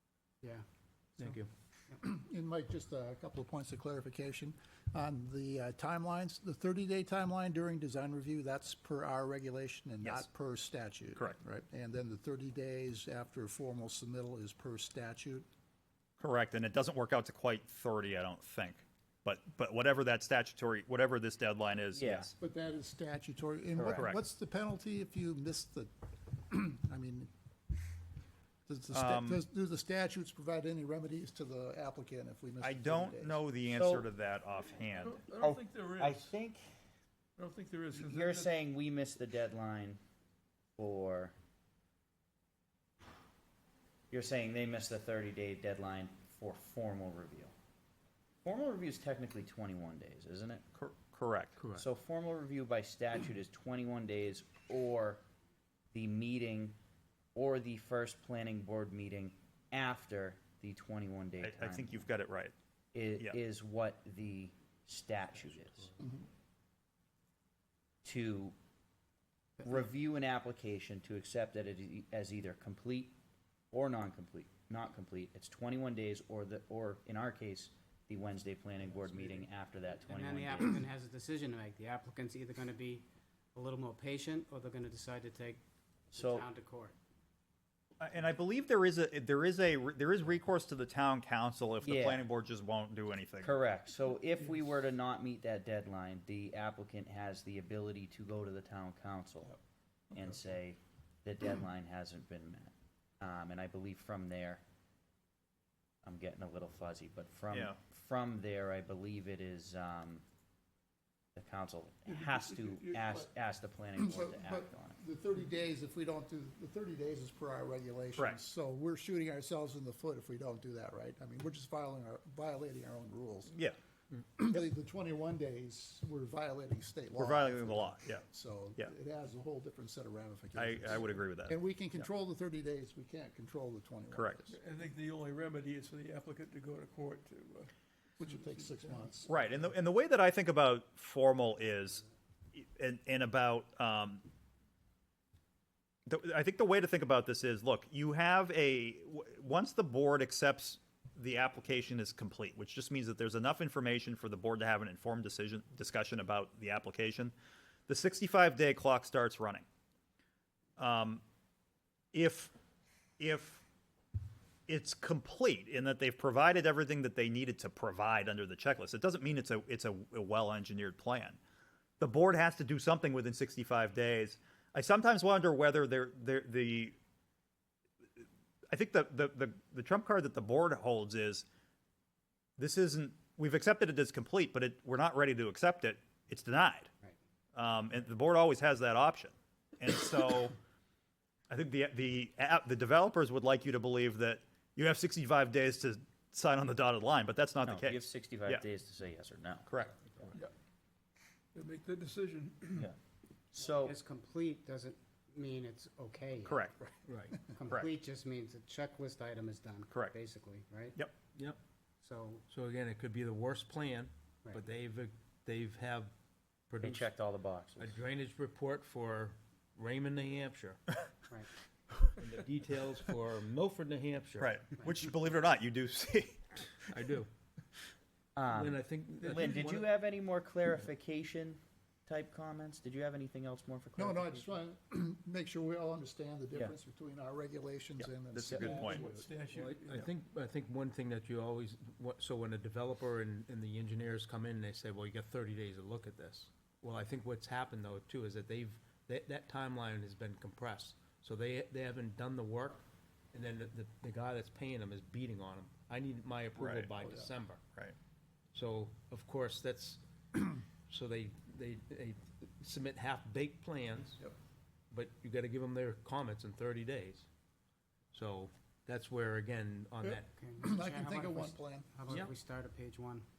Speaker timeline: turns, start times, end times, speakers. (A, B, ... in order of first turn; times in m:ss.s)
0:01.2-0:01.5 A
0:02.0-0:15.5 B
0:16.2-0:22.3 C
0:21.9-0:22.3 D
0:22.4-0:25.9 B
0:23.8-0:24.1 D
0:26.5-0:27.3 B
0:28.7-0:33.4 B
0:28.9-0:29.4 C
0:32.6-0:35.2 C
0:33.7-0:34.1 D
0:35.0-0:36.3 E
0:35.2-0:36.6 D
0:37.4-0:38.5 E
0:37.9-0:40.0 D
0:40.8-0:41.3 D
0:44.1-0:47.5 D
0:48.4-0:50.6 D
0:50.7-0:51.6 C
0:51.6-0:51.8 A
0:51.7-0:55.2 D
0:55.9-0:56.8 D
0:57.3-1:02.1 D
1:01.4-1:02.5 C
1:02.9-1:05.9 D
1:08.0-1:08.5 D
1:09.6-1:13.1 D
1:13.7-1:20.8 D
1:20.0-1:25.6 F
1:26.1-1:26.4 D
1:26.1-1:27.0 F
1:28.0-1:33.5 C
1:31.8-1:32.2 D
1:33.4-1:39.6 D
1:40.1-1:44.6 D
1:46.0-1:50.2 D
1:47.5-1:47.8 C
1:51.3-1:55.0 D
1:54.0-2:03.5 B
2:03.5-2:03.8 C
2:04.4-2:14.6 B
2:07.2-2:08.2 C
2:10.6-2:11.6 C
2:14.1-2:14.5 C
2:14.5-2:17.7 E
2:18.2-2:19.4 B
2:18.2-2:18.6 E
2:19.2-2:24.2 C
2:26.1-2:37.3 C
2:37.9-2:39.6 C
2:40.8-2:41.2 C
2:42.1-2:42.5 C
2:43.2-2:43.6 C
2:44.7-2:51.4 C
2:52.0-2:56.9 C
2:58.2-3:01.4 C
3:02.6-3:06.9 C
3:07.5-3:10.6 C
3:11.5-3:18.6 C
3:17.6-3:20.3 D
3:19.7-3:20.0 C
3:21.5-3:22.8 E
3:23.5-3:24.0 D
3:23.7-3:26.7 F
3:26.4-3:26.8 C
3:27.0-3:27.4 A
3:27.5-3:31.0 F
3:32.0-3:32.4 F
3:32.5-3:36.1 A
3:36.7-3:37.1 A
3:36.8-3:37.9 D
3:37.8-3:40.8 A
3:42.2-3:44.6 A
3:44.4-3:46.7 C
3:46.9-3:47.3 A
3:48.4-3:54.5 D
3:48.5-3:49.9 A
3:54.0-3:59.3 B
3:58.0-3:59.1 C
3:58.5-3:59.0 D
3:58.7-4:00.0 E
3:59.5-4:17.6 A
4:16.5-4:16.9 C
4:18.5-4:24.2 A
4:24.9-4:27.2 A
4:28.1-4:30.3 A
4:30.1-4:31.9 B
4:30.3-4:33.2 F